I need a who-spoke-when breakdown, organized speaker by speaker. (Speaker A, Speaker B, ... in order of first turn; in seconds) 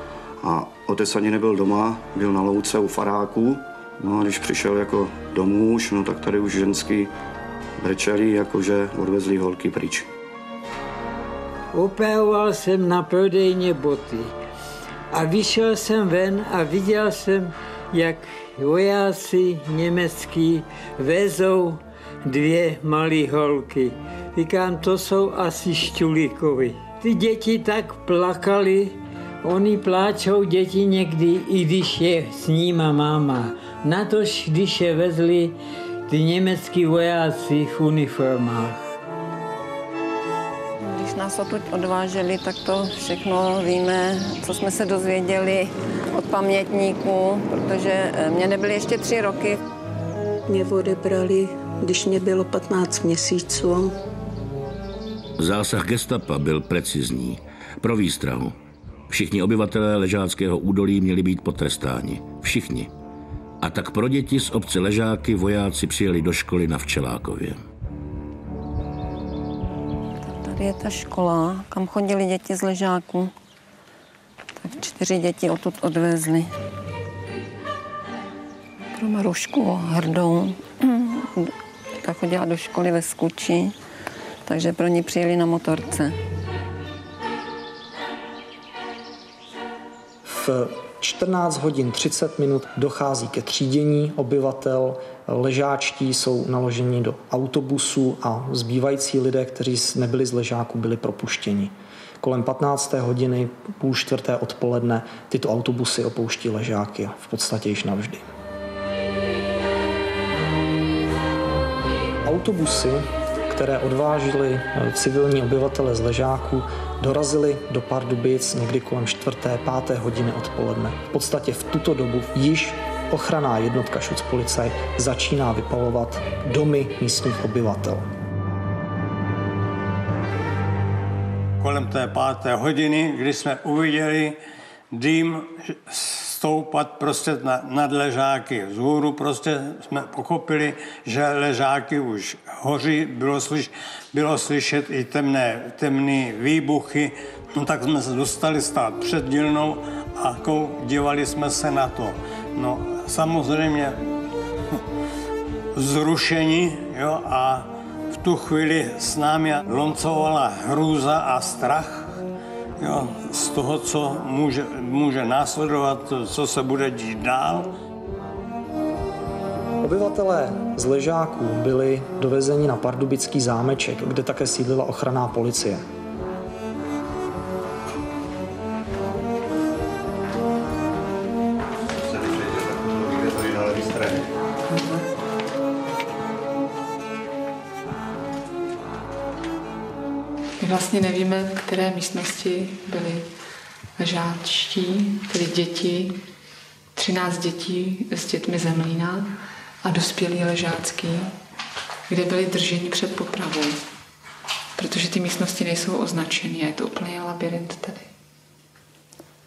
Speaker A: 0.4-7.1, 7.8-10.1
Speaker B: 11.7-14.3, 15.1-35.5, 36.1-38.9
Speaker C: 40.8-49.6, 70.2-73.3, 74.6-76.5, 78.9-83.7, 84.5-86.2
Speaker D: 50.5-53.9
Speaker E: 55.4-58.5, 59.1-62.9, 63.6-67.6
Speaker F: 90.2-108.2, 112.2-128.0, 169.8-175.8
Speaker G: 131.6-134.4, 134.9-154.0, 155.7-162.2, 162.8-167.7
Speaker H: 184.7-185.0, 190.6-193.3, 194.0-196.1, 196.9-199.3, 199.8-201.3, 202.1-203.8, 204.8-208.1